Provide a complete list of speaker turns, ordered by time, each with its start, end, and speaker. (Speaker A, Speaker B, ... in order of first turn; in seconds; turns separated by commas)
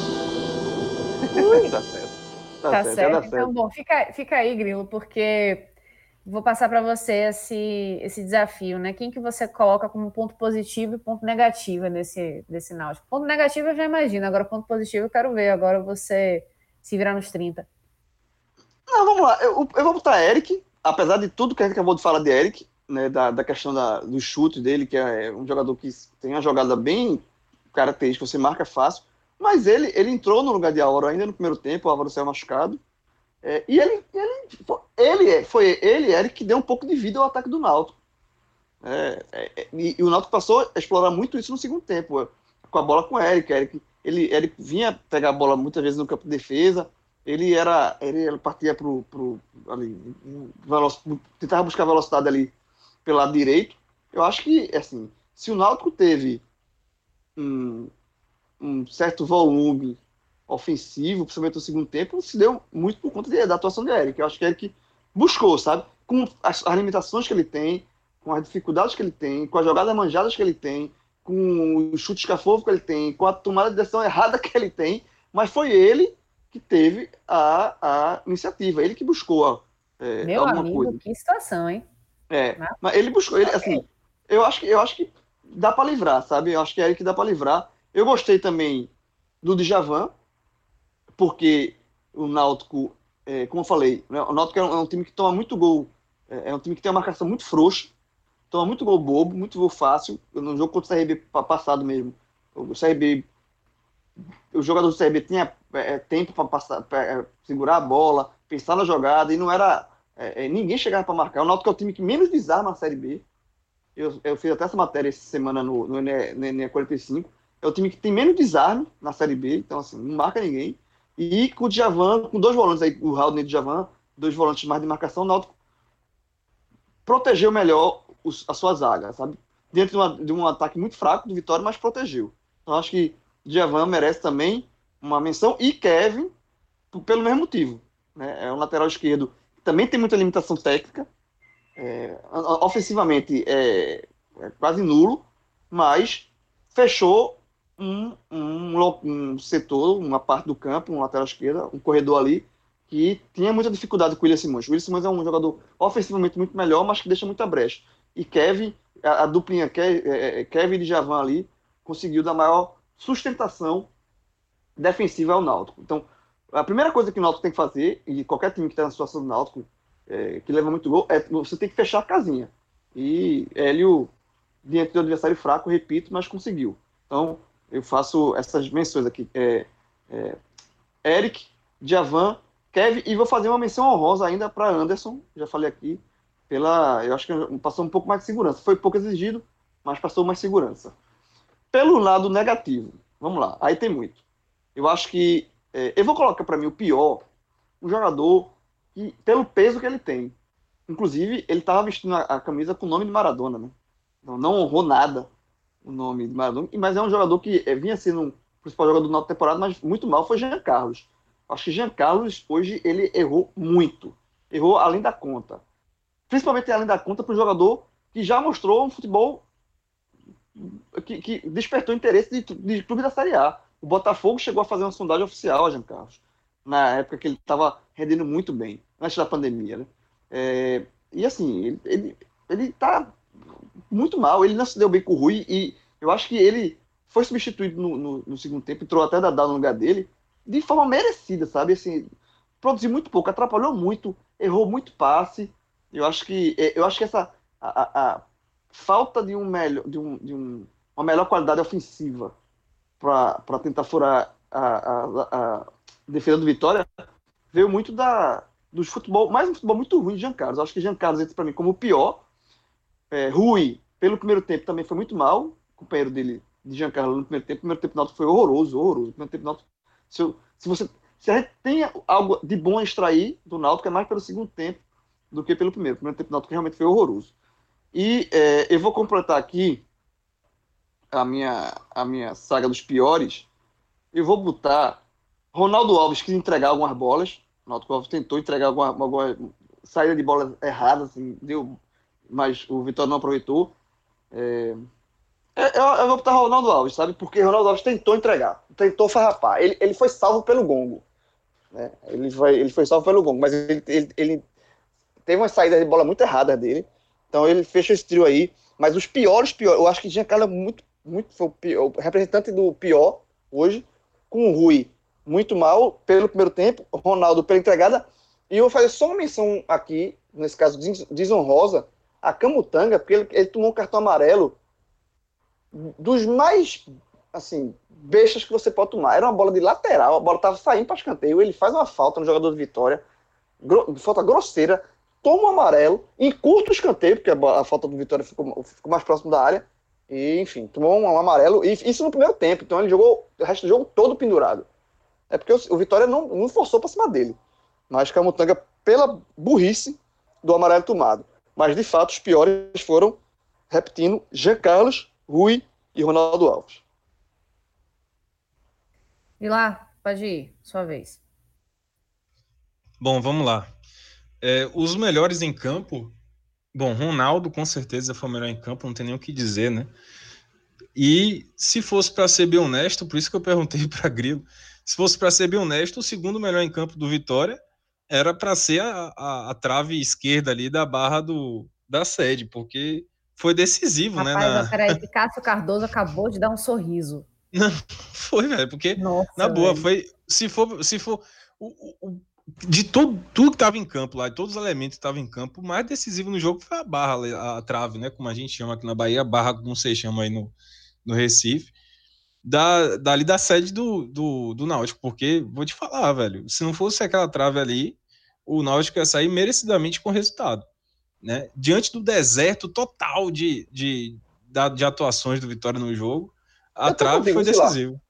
Speaker A: 1.3-1.7, Speaker B: 1.3-3.5, Speaker A: 2.7-5.7, Speaker A: 6.2-17.7, Speaker B: 18.9-32.8, Speaker B: 33.4-37.9, Speaker B: 38.8-52.5, Speaker B: 53.0-56.4, Speaker B: 57.4-57.9, Speaker B: 58.6-81.0, Speaker A: 80.2-81.8, Speaker B: 82.3-88.9, Speaker A: 83.4-83.8, Speaker B: 89.4-90.1, Speaker B: 91.1-97.9, Speaker B: 98.5-103.3, Speaker B: 104.5-113.2, Speaker B: 114.0-125.5, Speaker B: 127.0-136.3, Speaker B: 136.9-141.1, Speaker B: 141.8-163.9, Speaker B: 164.8-174.1, Speaker B: 174.6-180.4, Speaker B: 181.0-190.9, Speaker B: 191.7-194.2, Speaker B: 194.8-197.2, Speaker B: 197.8-200.3, Speaker B: 200.9-205.3, Speaker B: 205.8-215.6, Speaker B: 216.3-219.4, Speaker B: 220.6-233.2, Speaker B: 233.9-242.1, Speaker B: 242.6-252.3, Speaker B: 253.0-256.9, Speaker B: 257.5-262.2, Speaker B: 263.1-274.8, Speaker B: 275.3-277.3, Speaker B: 277.9-279.8, Speaker B: 281.1-283.5, Speaker B: 284.1-285.0, Speaker B: 285.5-291.7, Speaker B: 292.3-293.7, Speaker B: 294.3-294.8, Speaker B: 295.6-301.0, Speaker B: 301.7-304.4, Speaker B: 305.2-324.6, Speaker B: 325.7-333.0, Speaker B: 333.6-344.7, Speaker B: 345.3-347.4, Speaker B: 347.9-353.2, Speaker B: 353.7-356.8, Speaker A: 359.4-361.2, Speaker C: 363.0-363.7, Speaker C: 364.4-366.1, Speaker C: 366.7-369.9, Speaker C: 370.9-385.0, Speaker A: 384.1-387.2, Speaker C: 387.5-400.5, Speaker A: 389.0-389.9, Speaker C: 401.0-401.7, Speaker C: 402.4-410.6, Speaker C: 411.2-418.0, Speaker B: 416.9-417.8